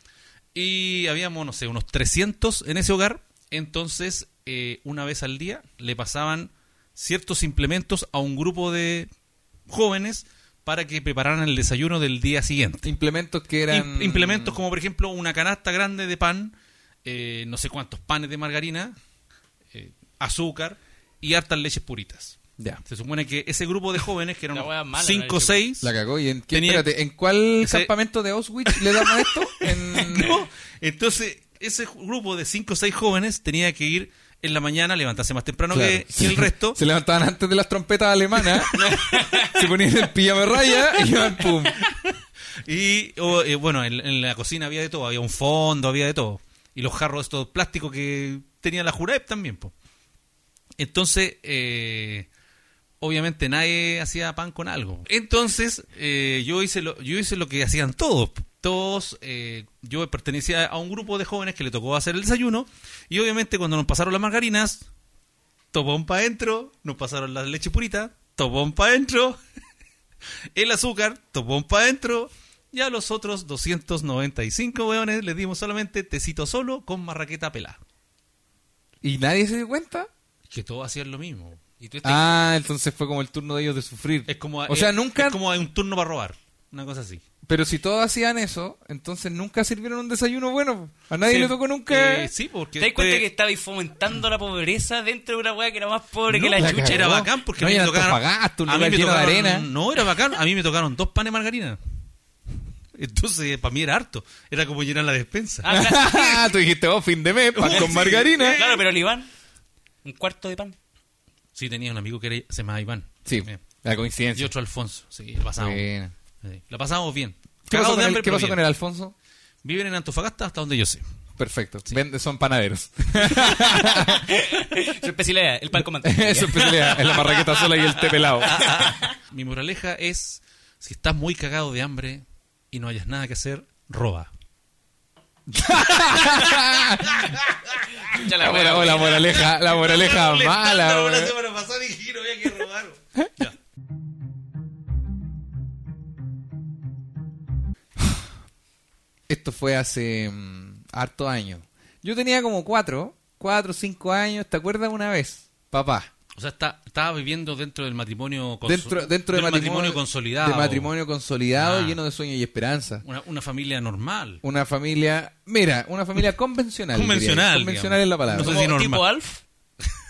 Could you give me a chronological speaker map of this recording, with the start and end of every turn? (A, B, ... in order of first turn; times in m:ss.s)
0:00.5-0:09.1 A
0:09.7-0:12.9 A
0:12.8-0:14.6 B
0:13.7-0:19.0 A
0:19.7-0:25.9 A
0:24.5-0:25.6 C
0:25.8-0:30.4 B
0:26.5-0:26.9 A
0:27.6-0:27.9 A
0:28.7-0:36.8 A
0:35.7-0:41.8 B
0:38.7-0:39.6 C
0:42.6-0:49.7 A
0:50.8-0:52.3 A
0:53.0-1:04.9 A
1:05.7-1:09.4 A
1:10.6-1:17.8 A
1:19.0-1:20.1 B
1:20.5-1:21.6 A
1:21.8-1:22.4 C
1:22.0-1:25.4 B
1:24.3-1:27.2 A
1:27.5-1:32.3 B
1:31.3-1:33.2 A
1:32.8-1:37.2 C
1:36.3-1:39.7 B
1:36.6-1:41.8 A
1:43.0-1:45.7 A
1:45.6-1:46.4 C
1:45.7-1:48.6 B
1:47.6-1:48.8 A
1:48.5-1:49.3 C
1:50.0-1:50.8 C
1:51.6-1:53.6 A
1:53.3-1:54.5 B
1:54.4-1:55.9 A
1:55.6-1:56.1 B
1:56.4-1:58.6 A
1:57.7-1:59.1 B
1:59.6-2:01.0 A
2:01.4-2:04.3 B
2:03.4-2:09.1 C
2:06.0-2:08.6 B
2:08.4-2:14.3 A
2:15.5-2:17.3 B
2:16.0-2:17.8 A
2:18.0-2:19.4 C
2:18.1-2:21.3 B
2:18.8-2:23.6 A
2:29.3-2:36.1 B
2:36.4-2:40.9 A
2:38.6-2:43.0 B
2:41.6-2:42.0 A
2:43.0-2:44.4 A
2:44.4-2:48.6 B
2:46.9-2:49.0 A
2:48.4-2:49.4 C